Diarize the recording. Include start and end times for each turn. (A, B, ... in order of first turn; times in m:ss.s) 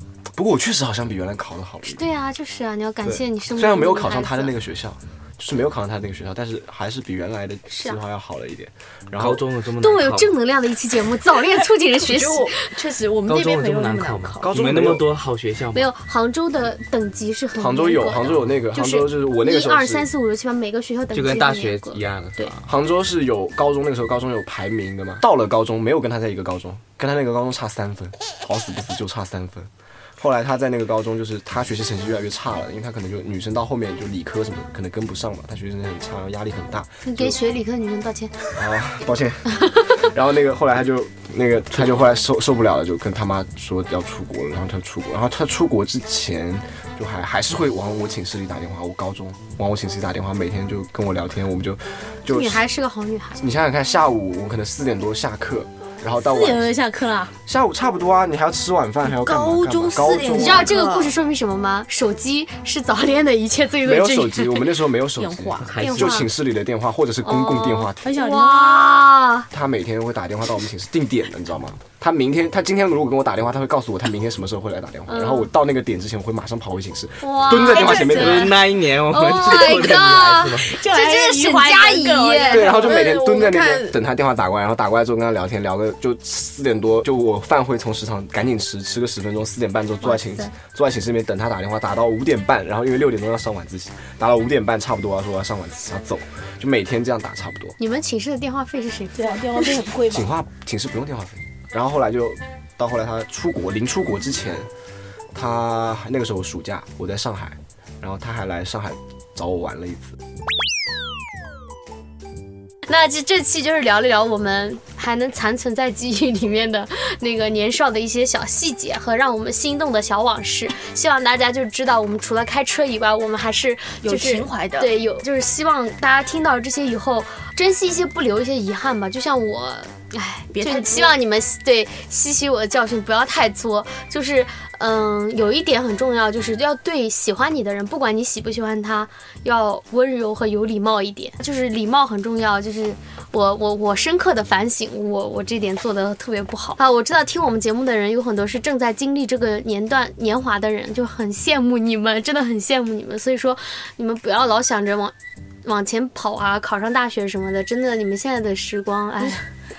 0:00.3-0:02.0 A
0:01.8-0:04.5 B
0:03.0-0:09.5 A
0:07.7-0:08.0 B
0:09.2-0:10.3 C
0:09.8-0:12.7 B
0:12.0-0:14.6 D
0:13.3-0:15.9 C
0:14.4-0:15.1 A
0:15.7-0:22.5 B
0:17.5-0:20.1 A
0:21.1-0:22.7 C
0:22.6-0:37.4 A
0:37.0-0:38.6 B
0:38.6-0:52.6 A
0:52.3-0:53.4 B
0:53.4-0:56.7 A
0:56.2-0:57.4 E
0:57.4-1:00.7 A
0:59.1-1:01.1 D
1:00.3-1:04.7 B
1:03.8-1:08.2 A
1:05.2-1:05.8 D
1:05.6-1:06.2 C
1:05.8-1:06.3 B
1:07.2-1:09.5 B
1:08.0-1:08.9 E
1:09.5-1:18.6 A
1:15.1-1:15.5 B
1:17.2-1:22.8 B
1:17.7-1:20.7 C
1:20.7-1:22.8 E
1:22.5-1:37.8 A
1:22.6-1:24.0 D
1:30.0-1:30.5 B
1:37.8-1:39.9 B
1:39.2-1:40.3 E
1:40.1-1:44.7 A
1:45.3-1:50.2 A
1:52.9-2:35.1 B
2:04.0-2:04.9 D
2:10.5-2:11.2 D
2:35.6-2:39.4 B